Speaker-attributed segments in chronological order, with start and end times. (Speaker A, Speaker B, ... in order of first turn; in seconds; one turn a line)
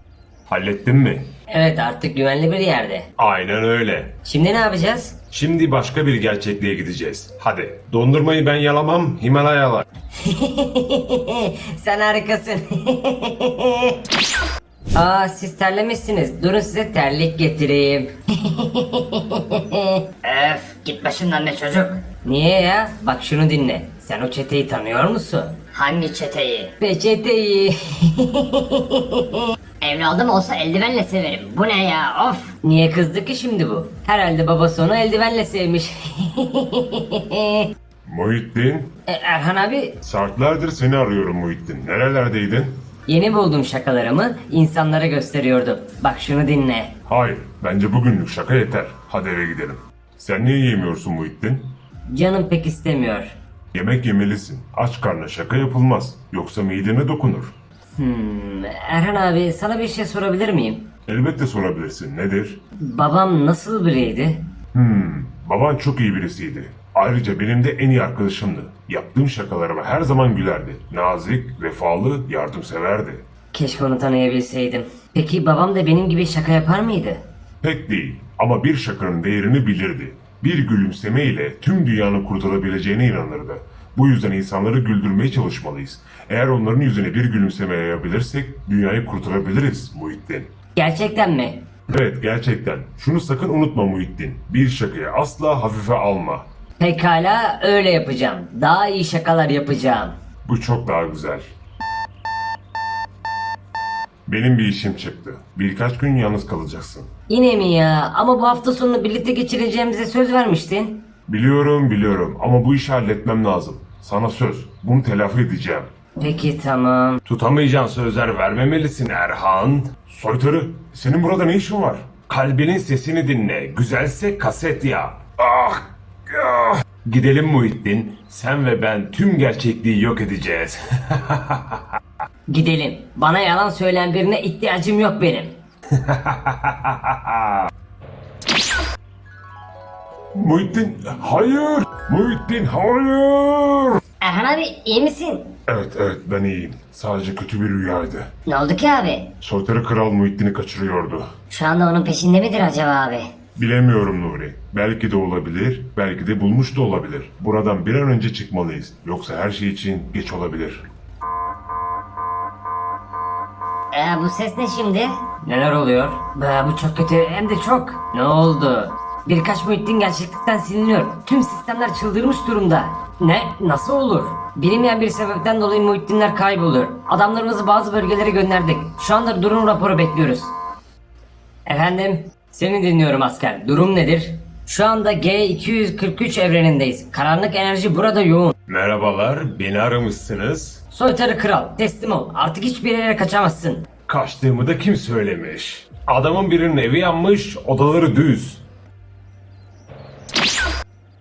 Speaker A: 0.5-1.3
Speaker B: 1.5-3.1
Speaker A: 3.2-4.1
Speaker B: 4.2-5.2
Speaker A: 5.3-9.8
Speaker B: 10.2-14.0
Speaker B: 14.9-25.7
Speaker C: 21.0-21.9
Speaker C: 25.8-26.7
Speaker B: 26.6-29.4
Speaker C: 29.8-32.5
Speaker B: 32.5-37.7
Speaker A: 38.0-38.9
Speaker B: 39.1-40.0
Speaker A: 40.0-42.8
Speaker B: 43.1-46.9
Speaker A: 47.1-51.7
Speaker B: 52.1-53.3
Speaker A: 53.7-57.5
Speaker B: 58.0-60.9
Speaker A: 61.1-62.6
Speaker B: 62.8-64.4
Speaker A: 64.7-73.2
Speaker B: 73.5-77.2
Speaker A: 77.6-90.5
Speaker B: 90.8-91.7
Speaker A: 91.9-96.5
Speaker B: 96.8-100.1
Speaker A: 100.5-101.5
Speaker A: 104.2-107.1
Speaker B: 107.3-111.1
Speaker A: 111.3-115.9
Speaker B: 116.2-117.2
Speaker A: 117.2-131.8
Speaker B: 132.5-135.5
Speaker A: 135.9-137.6
Speaker A: 140.3-144.0
Speaker C: 144.2-145.5
Speaker A: 145.7-148.3
Speaker C: 148.5-149.3
Speaker A: 149.4-151.3
Speaker C: 151.5-153.3
Speaker A: 153.6-160.8
Speaker C: 163.9-165.1
Speaker B: 165.4-180.5
Speaker B: 181.7-188.5
Speaker A: 188.7-190.8
Speaker B: 190.9-193.9
Speaker A: 194.1-198.6